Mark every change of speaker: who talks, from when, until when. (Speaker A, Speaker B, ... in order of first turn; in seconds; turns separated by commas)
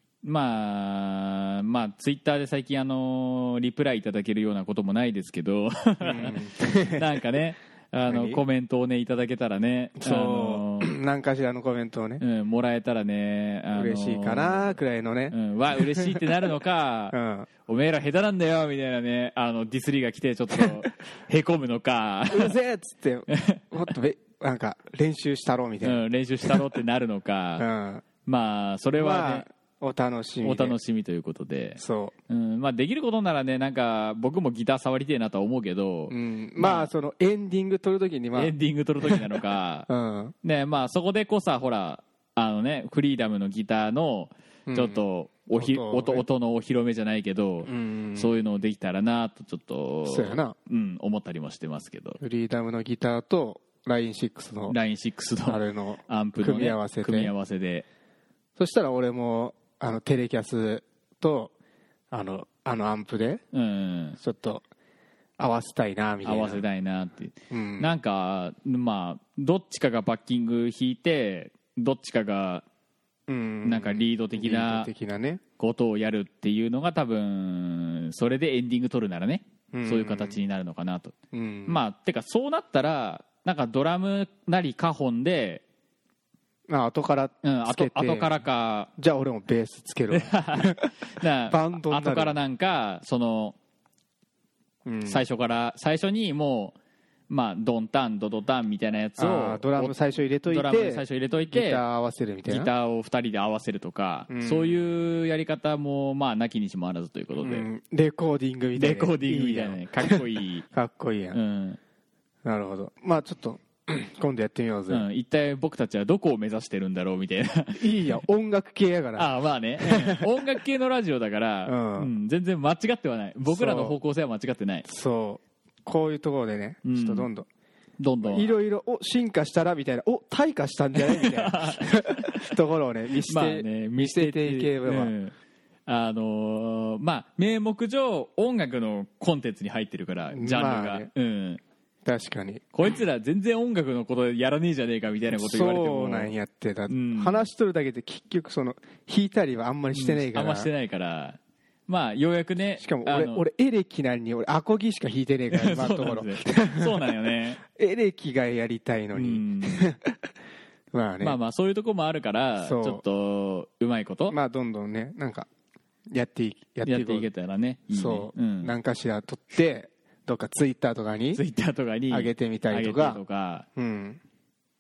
Speaker A: 0.2-10.9, Speaker B: 6.0-7.1, Speaker B: 8.1-8.4, Speaker B: 10.0-12.2, Speaker A: 12.2-14.8, Speaker B: 13.8-16.3, Speaker A: 15.3-17.1, Speaker B: 17.1-17.5, Speaker A: 17.7-22.6, Speaker B: 22.3-26.6, Speaker A: 23.3-23.6, Speaker A: 25.8-27.7, Speaker B: 27.6-28.1, Speaker A: 28.2-29.5, Speaker B: 29.0-30.8, Speaker A: 30.4-36.9, Speaker B: 31.8-32.1, Speaker B: 36.1-38.5, Speaker A: 38.4-39.9, Speaker B: 39.9-40.4, Speaker A: 40.4-52.2, Speaker B: 44.7-45.0, Speaker B: 45.5-46.2, Speaker B: 47.7-48.4, Speaker B: 50.1-50.5, Speaker B: 52.2-54.8, Speaker A: 54.7-57.9, Speaker B: 55.5-57.3, Speaker B: 58.6-61.5, Speaker B: 62.1-63.4, Speaker A: 63.5-64.2, Speaker B: 64.2-64.6, Speaker B: 65.4-66.6, Speaker A: 66.2-72.6, Speaker B: 67.5-67.9, Speaker B: 73.3-75.4, Speaker A: 73.7-74.9, Speaker A: 75.6-81.1, Speaker B: 79.7-80.4, Speaker B: 81.3-81.8, Speaker A: 81.7-85.6, Speaker B: 86.7-88.3, Speaker A: 87.4-88.9, Speaker B: 89.0-90.9, Speaker A: 90.1-93.6, Speaker B: 91.5-92.3, Speaker B: 94.8-95.2, Speaker A: 95.1-96.8, Speaker A: 97.3-100.0, Speaker B: 99.2-102.7, Speaker A: 100.5-101.8, Speaker A: 102.5-107.7, Speaker B: 104.3-104.8, Speaker B: 107.4-110.2, Speaker A: 108.8-110.7, Speaker B: 110.7-111.4, Speaker A: 111.3-111.8, Speaker B: 112.4-115.1, Speaker A: 114.9-118.2, Speaker B: 117.8-119.3, Speaker A: 119.2-124.8, Speaker B: 119.8-120.3, Speaker B: 121.7-122.1, Speaker B: 123.5-124.0, Speaker B: 124.8-127.5, Speaker A: 126.8-127.3, Speaker A: 128.0-128.5, Speaker B: 128.2-135.1, Speaker A: 131.0-132.5, Speaker A: 133.2-135.3, Speaker A: 135.9-141.6, Speaker B: 140.3-141.1, Speaker B: 142.1-142.6, Speaker A: 142.7-146.3, Speaker B: 145.3-150.7, Speaker A: 146.9-147.4, Speaker A: 149.9-153.4, Speaker B: 152.8-157.1, Speaker A: 155.5-157.6, Speaker B: 157.7-160.2, Speaker A: 159.2-159.9, Speaker B: 160.9-161.4, Speaker A: 161.2-164.4, Speaker B: 162.6-163.0, Speaker B: 164.3-165.5, Speaker B: 166.1-167.3, Speaker A: 166.9-168.8, Speaker B: 167.9-171.4, Speaker A: 171.3-173.7, Speaker B: 172.1-173.2, Speaker B: 173.8-174.2